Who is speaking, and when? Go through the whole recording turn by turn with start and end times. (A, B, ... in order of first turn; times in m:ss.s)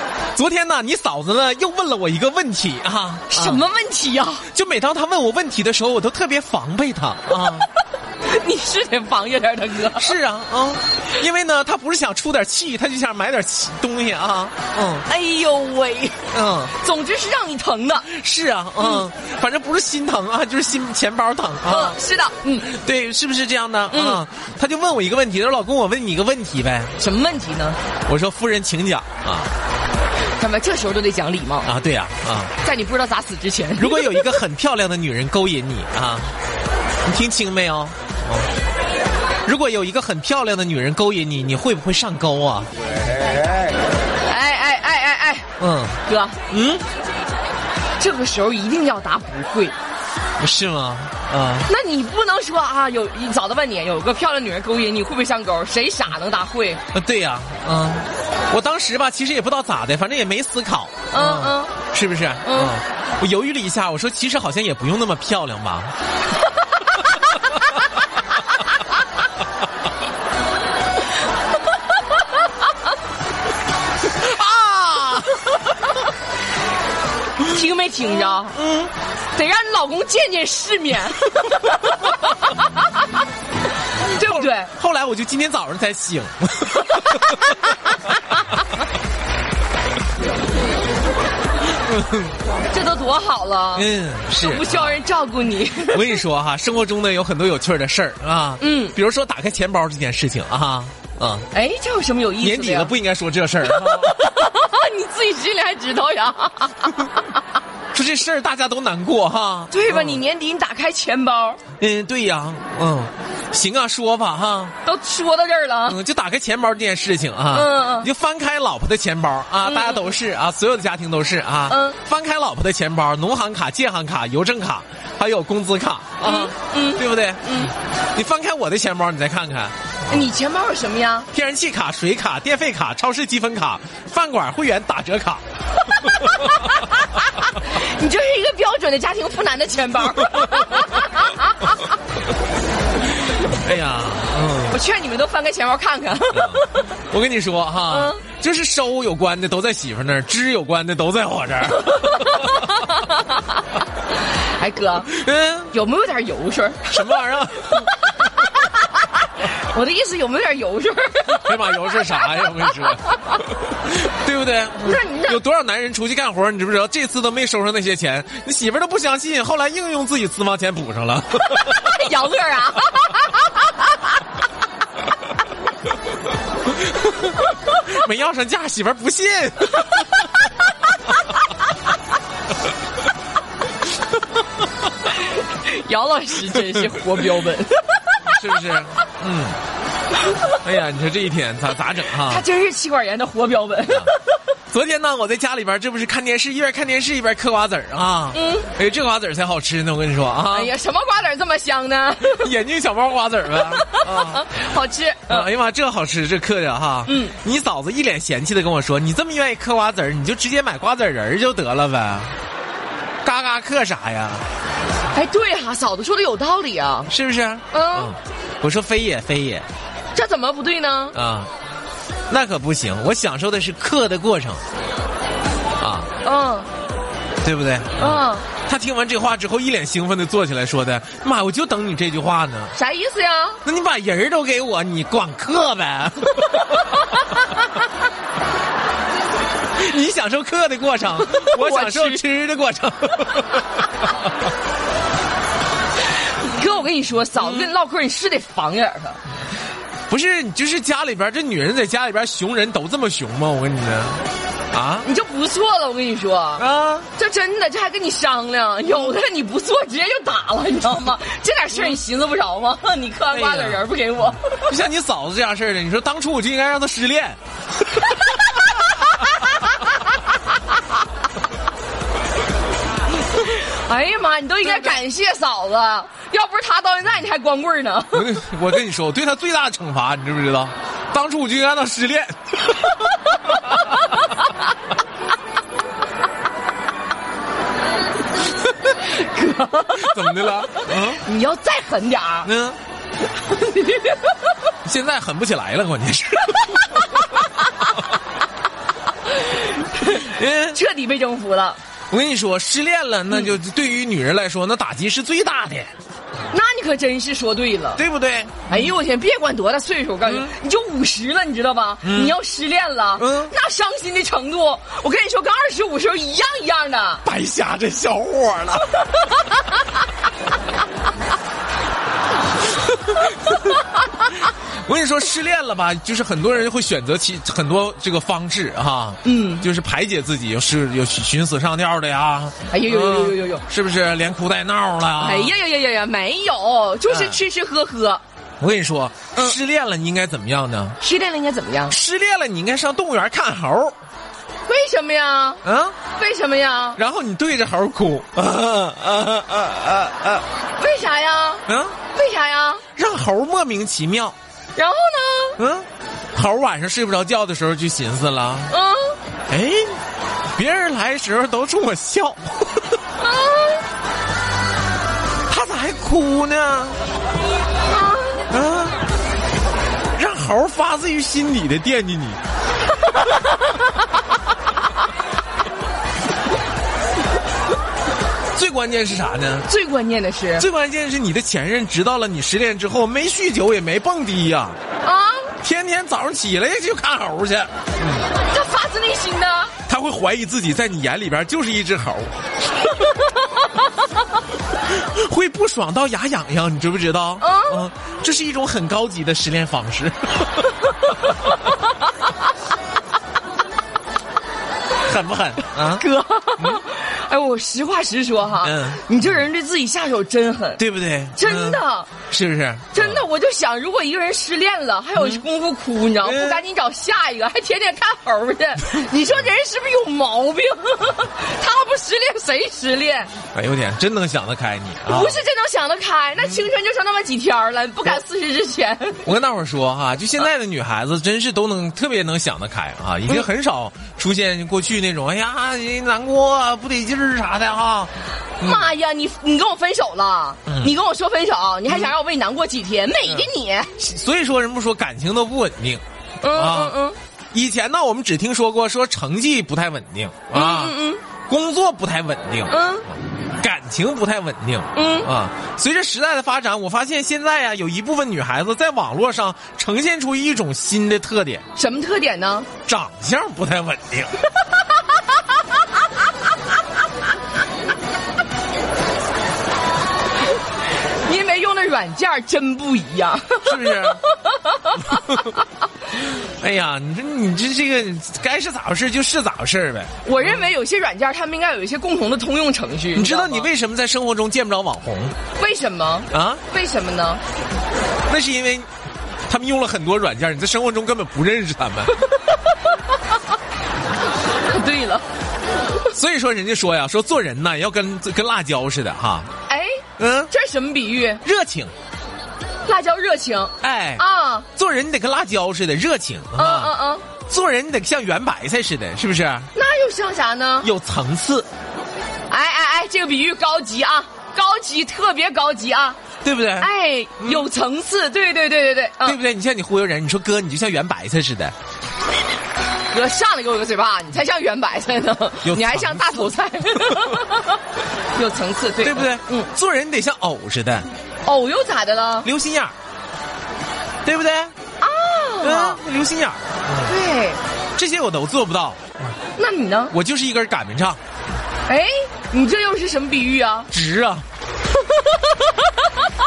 0:00.4-0:03.7 A
0:03.3-0:04.5 B
0:04.5-0:07.7 A
0:08.2-0:10.2 B
0:09.9-0:15.1 A
0:15.1-0:16.2 B
0:16.3-0:16.8 A
0:16.8-0:18.1 B
0:18.0-0:22.0 A
0:18.8-0:19.1 B
0:21.6-0:22.7 B
0:22.6-0:27.0 A
0:23.9-0:24.2 B
0:27.0-0:27.8 B
0:28.1-0:29.5 A
0:30.4-0:31.7 B
0:31.6-0:32.5 A
0:32.6-0:34.3 B
0:33.8-0:36.3 A
0:37.0-0:38.5 A
0:39.4-0:42.7 A
0:44.3-0:45.5 B
0:45.6-0:46.8 A
0:46.0-0:46.4 B
0:48.0-0:49.8 B
0:50.4-0:51.7 A
0:51.7-0:56.8 B
0:56.9-1:05.9 A
1:01.1-1:01.8 B
1:02.4-1:02.8 B
1:14.1-1:15.7 A
1:17.4-1:18.6 B
1:18.2-1:18.9 A
1:19.3-1:23.2 B
1:24.0-1:24.7 B
1:24.0-1:28.0 A
1:27.0-1:28.2 B
1:31.9-1:32.3 A
1:32.7-1:36.2 B
1:33.8-1:35.0 A
1:35.7-1:41.5 A
1:38.6-1:39.0 B
1:41.5-1:42.9 B
1:42.4-1:44.2 A
1:43.6-1:47.2 B
1:47.9-1:50.2 A
1:49.7-1:51.6 B
1:51.8-1:54.7 A
1:54.8-1:56.0 B
1:55.9-2:10.2 A
1:57.5-1:58.1 B
1:59.6-2:00.1 B
2:01.7-2:02.0 B
2:06.2-2:07.7 B
2:10.1-2:11.3 B
2:11.3-2:15.4 A
2:15.9-2:21.7 B
2:23.3-2:24.8 A
2:24.7-2:26.9 B
2:26.3-2:32.6 A
2:27.9-2:28.2 B
2:31.8-2:33.5 B
2:34.4-2:35.1 B
2:35.1-2:35.7 A
2:35.7-2:43.2 B
2:36.9-2:37.9 A
2:41.3-2:52.0 A
2:44.8-2:45.4 B
2:51.5-2:54.0 B
2:56.7-3:00.2 A
3:05.3-3:08.7 B
3:08.3-3:09.6 A
3:10.5-3:12.4 A
3:12.1-3:14.3 B
3:13.9-3:14.1 A
3:14.7-3:20.8 A
3:18.3-3:18.7 B
3:20.5-3:22.5 B
3:22.2-3:24.5 A
3:23.6-3:25.5 B
3:25.3-3:32.3 A
3:27.1-3:27.4 B
3:33.2-3:34.4 A
3:35.1-3:37.1 B
3:37.1-3:39.7 A
3:37.7-3:38.1 B
3:40.2-3:41.2 B
3:41.1-3:41.5 A
3:42.3-3:44.6 A
3:45.8-3:46.1 A
3:46.2-3:46.7 B
3:47.4-3:52.7 A
3:48.0-3:48.5 B
3:52.7-3:53.6 B
3:53.6-3:57.0 A
3:56.7-3:57.4 B
3:59.8-4:04.1 A
4:01.2-4:02.2 B
4:06.4-4:09.2 B
4:07.4-4:07.7 A
4:10.1-4:15.1 A
4:15.0-4:16.6 B
4:16.6-4:17.1 A
4:17.2-4:24.7 B
4:21.7-4:22.0 A
4:23.3-4:23.8 A
4:24.5-4:27.4 A
4:33.4-4:38.4 B
4:38.1-4:44.2 A
4:43.4-4:44.6 B
4:48.9-4:52.5 B
4:49.9-4:51.2 A
4:52.4-4:52.8 A
4:53.4-4:54.4 B
4:54.8-4:57.3 A
4:59.8-5:01.8 B
5:00.0-5:00.8 A
5:02.1-5:05.9 A
5:06.5-5:08.0 B
5:08.0-5:08.9 A
5:08.7-5:17.2 B
5:10.3-5:10.5 A
5:12.0-5:12.4 A
5:13.2-5:13.5 A
5:17.2-5:19.1 A
5:22.9-5:23.8 A
5:24.5-5:35.6 A
5:29.2-5:29.7 B
5:32.7-5:33.6 B
5:35.2-5:38.2 B
5:37.1-5:37.4 A
5:38.6-5:41.0 A
5:41.0-5:42.0 B
5:41.9-5:44.0 A
5:44.7-5:45.6 B
5:45.6-5:46.0 A
5:46.2-5:47.0 B
5:47.0-5:50.4 A
5:50.8-5:52.8 B
5:51.7-5:52.0 A
5:53.0-5:54.4 A
5:54.8-5:55.6 B
5:55.6-5:58.7 A
5:58.7-5:59.2 B
5:59.5-6:00.0 A
6:00.6-6:03.0 A
6:03.2-6:03.8 B
6:05.5-6:07.0 A
6:07.9-6:08.4 B
6:08.5-6:09.0 A
6:10.2-6:12.4 A
6:18.6-6:19.7 A
6:19.7-6:20.7 B
6:20.6-6:24.8 A
6:25.0-6:25.5 B
6:25.6-6:28.3 A
6:28.5-6:29.7 B
6:29.9-6:32.3 A
6:34.9-6:40.7 A
6:37.4-6:37.9 B
6:45.1-6:46.0 A
6:45.9-6:50.8 B
6:48.6-6:49.4 A
6:50.8-6:53.2 A
6:51.4-6:52.1 B
6:52.9-7:03.3 B
6:55.2-6:55.4 A
6:56.2-6:56.6 A
7:03.5-7:05.4 A
7:05.1-7:09.3 B
7:09.2-7:18.1 A
7:18.6-7:18.9 A
7:18.6-7:23.9 B
7:20.7-7:20.9 A
7:23.3-7:26.0 A
7:26.4-7:27.2 B
7:26.5-7:27.0 A
7:27.5-7:31.0 A
7:30.5-7:31.2 B
7:31.5-7:41.6 A
7:32.7-7:33.1 B
7:34.9-7:35.3 B
7:41.8-7:42.7 B
7:42.9-7:44.3 A
7:51.2-7:55.6 B
7:53.6-7:54.2 A
7:55.0-7:55.5 A
7:56.1-8:00.6 A
8:00.2-8:03.7 B
8:03.2-8:05.4 A
8:05.6-8:07.4 B
8:06.3-8:06.6 A
8:08.3-8:08.9 A
8:09.5-8:12.2 A
8:14.6-8:15.3 B
8:16.0-8:19.5 A
8:19.7-8:21.4 B
8:20.2-8:20.5 A
8:21.4-8:21.9 A
8:22.8-8:24.7 B
8:23.8-8:24.2 A
8:24.8-8:29.7 A
8:26.6-8:27.3 B
8:29.8-8:30.9 B
8:30.8-8:31.7 A
8:32.5-8:36.2 B
8:36.4-8:37.7 A
8:36.8-8:39.4 B
8:39.2-8:41.7 A
8:43.1-8:47.8 B
8:45.6-8:47.4 A
8:48.3-8:49.7 B
8:49.0-8:51.1 A
8:51.4-8:52.5 B
8:52.4-8:52.9 A
8:54.2-8:54.7 A
8:55.0-8:56.0 B
8:55.6-8:57.1 A
8:57.0-8:57.6 B
8:58.0-8:59.4 A
8:59.6-9:00.1 B
9:00.1-9:01.2 A
9:01.9-9:03.9 B
9:03.9-9:04.4 A